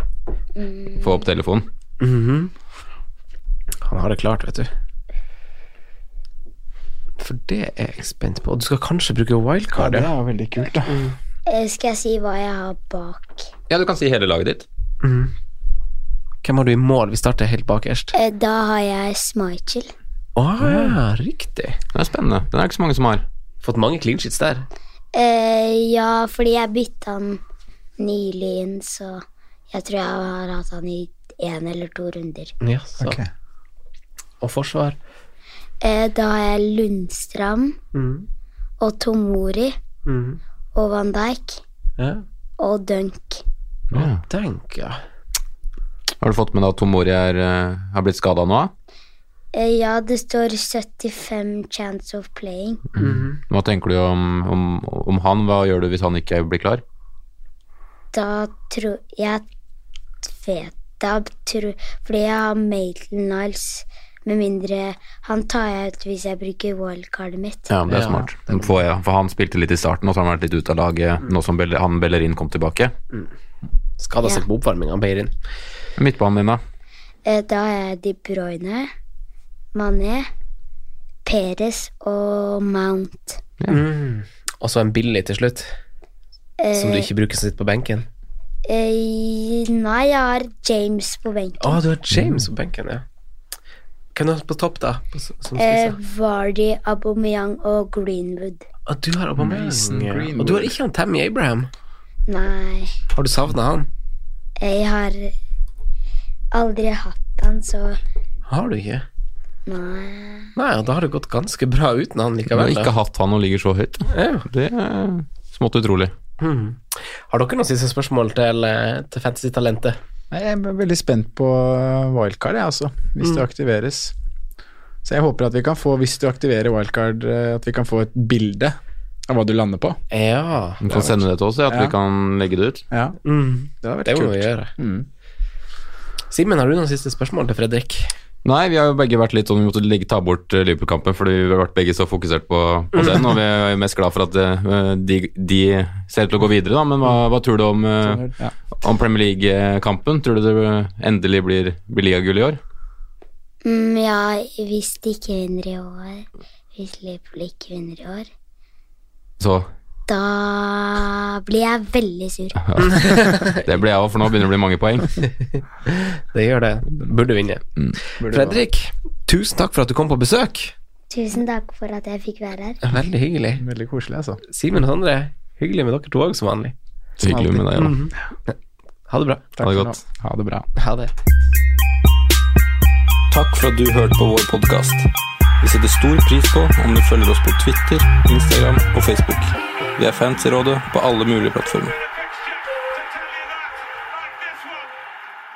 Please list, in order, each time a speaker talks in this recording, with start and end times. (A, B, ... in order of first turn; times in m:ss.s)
0:00.6-0:01.2 A
0:01.0-0:01.7 B
0:02.0-0:02.5 C
0:03.8-0:04.7 C
0:07.2-0:10.1 C
0:09.7-0:11.0 D
0:10.8-0:11.2 C
0:11.5-0:13.5 A
0:13.7-0:14.7 B
0:15.0-0:15.3 C
0:16.4-0:18.1 C
0:18.1-0:19.9 A
0:20.4-0:21.8 C
0:21.9-0:23.2 B
0:23.6-0:24.7 C
0:25.1-0:27.4 A
0:28.0-0:32.5 A
0:32.6-0:33.2 C
0:33.0-0:33.3 D
0:34.4-0:35.0 C
0:35.8-0:37.8 A
0:37.9-0:38.3 C
0:38.8-0:39.7 A
0:40.1-0:40.4 C
0:40.7-0:41.6 A
0:42.0-0:42.2 C
0:42.6-0:43.4 A
0:43.9-0:45.0 C
0:43.9-0:44.2 B
0:46.2-0:48.7 B
0:49.5-0:52.8 A
0:53.0-0:53.4 C
0:53.0-0:56.8 B
0:58.1-0:59.4 A
1:00.2-1:07.7 A
1:07.7-1:12.9 B
1:07.9-1:08.8 C
1:14.0-1:15.3 C
1:16.0-1:16.6 B
1:17.2-1:18.9 A
1:19.7-1:20.3 A
1:21.2-1:23.4 A
1:23.7-1:25.7 C
1:26.6-1:27.1 A
1:26.7-1:28.1 C
1:28.7-1:31.8 A
1:31.6-1:33.0 C
1:34.2-1:36.0 C
1:35.6-1:38.6 A
1:38.9-1:41.7 C
1:39.4-1:40.8 D
1:42.3-1:42.9 A
1:43.2-1:43.9 C
1:44.6-1:45.4 A
1:46.5-1:48.0 A
1:48.5-1:49.0 C
1:49.7-1:50.5 A
1:50.6-1:52.9 C
1:52.5-1:56.1 B
1:54.1-1:54.5 C
1:56.4-2:00.0 C
2:00.3-2:04.2 D
2:05.0-2:08.8 D
2:09.3-2:10.0 D
2:10.1-2:10.9 C
2:10.8-2:12.8 B
2:10.9-2:12.0 D
2:12.9-2:13.2 D
2:13.2-2:14.7 C
2:13.8-2:15.1 D
2:16.3-2:18.1 C
2:18.4-2:32.6 B
2:22.9-2:23.4 C
2:28.0-2:28.5 D
2:33.6-2:38.3 A
2:39.4-2:39.7 B
2:40.1-2:43.0 A
2:42.7-2:43.0 B
2:42.9-2:43.6 C
2:43.5-2:45.3 B
2:45.7-2:50.7 C
2:48.2-2:48.6 D
2:51.1-2:52.8 A
2:52.8-2:53.6 C
2:53.6-2:54.4 D
2:54.5-2:56.7 C
2:57.2-2:58.0 B
2:57.2-2:57.7 D
2:57.8-2:58.6 C
2:59.1-2:59.5 C
2:59.6-3:00.7 D
2:59.6-3:00.0 B
3:00.8-3:01.1 C
3:03.3-3:05.1 E
3:05.6-3:12.0 E
3:06.3-3:06.9 B